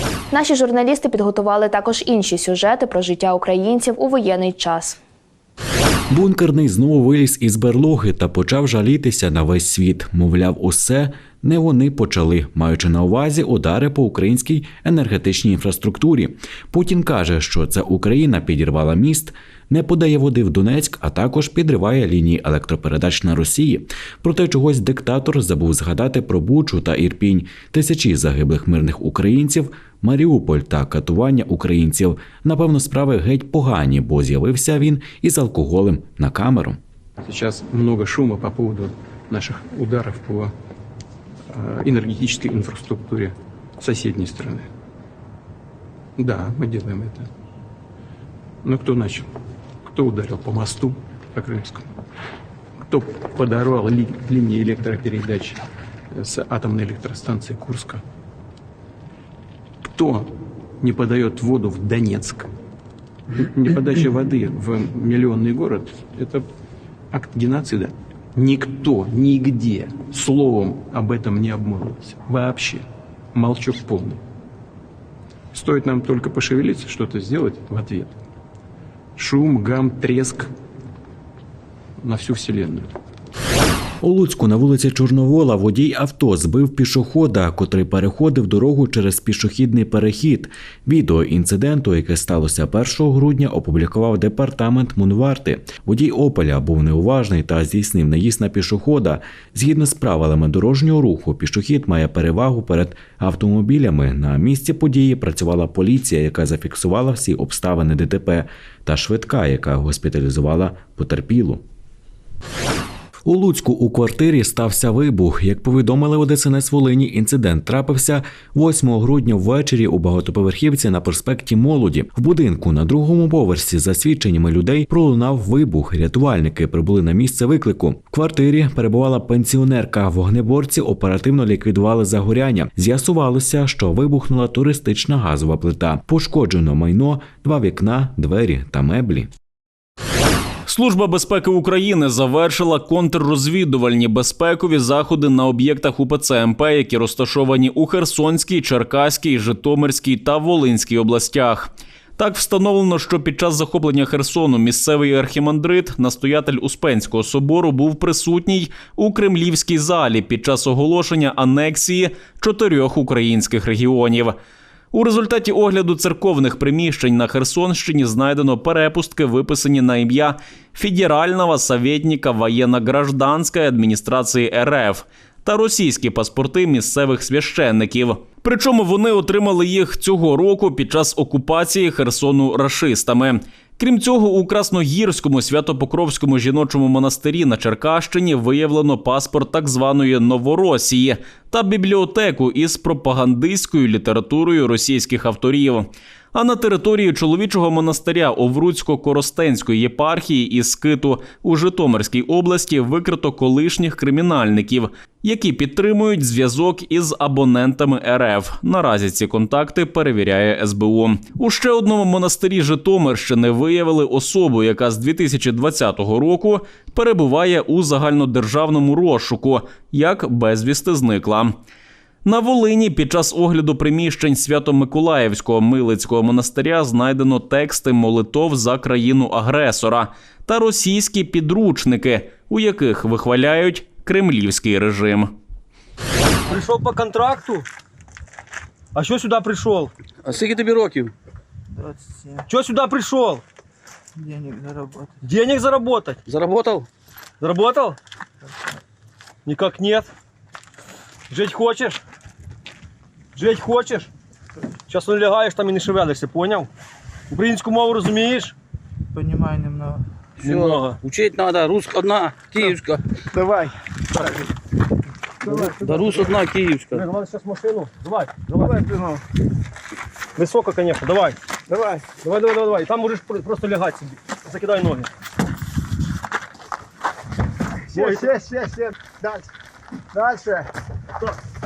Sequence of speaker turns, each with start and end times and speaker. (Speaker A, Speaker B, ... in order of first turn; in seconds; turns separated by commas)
Speaker A: 0.3-5.0, Speaker B: 6.1-36.8, Speaker C: 37.2-40.5, Speaker C: 41.5-44.7, Speaker C: 46.2-47.3, Speaker C: 48.6-49.3, Speaker C: 49.8-51.9, Speaker C: 52.8-55.6, Speaker C: 56.1-58.0, Speaker C: 59.8-62.5, Speaker C: 63.3-66.5, Speaker C: 67.1-74.2, Speaker C: 75.5-78.1, Speaker C: 79.2-80.5, Speaker C: 82.0-82.9, Speaker B: 84.0-111.6, Speaker B: 113.2-139.3, Speaker D: 140.7-164.3, Speaker D: 164.9-221.5, Speaker D: 222.2-235.3, Speaker E: 236.5-237.6, Speaker E: 238.9-239.9, Speaker F: 240.2-241.1, Speaker G: 241.8-242.4, Speaker E: 242.5-243.4, Speaker G: 244.2-245.1, Speaker E: 245.2-246.2, Speaker F: 246.2-246.9, Speaker E: 247.4-248.0, Speaker E: 249.4-250.1, Speaker E: 251.3-252.0, Speaker E: 253.3-254.1, Speaker E: 254.9-256.7, Speaker E: 257.3-258.5, Speaker G: 259.1-260.0, Speaker F: 260.4-263.0, Speaker E: 260.4-261.0, Speaker G: 263.3-263.7, Speaker E: 265.4-266.2, Speaker G: 265.4-265.9, Speaker F: 265.7-267.0, Speaker E: 266.9-268.8, Speaker G: 268.5-269.2, Speaker E: 270.4-271.4, Speaker G: 271.7-272.1, Speaker E: 272.0-275.1, Speaker E: 277.9-278.3, Speaker G: 277.9-279.5, Speaker G: 280.1-280.7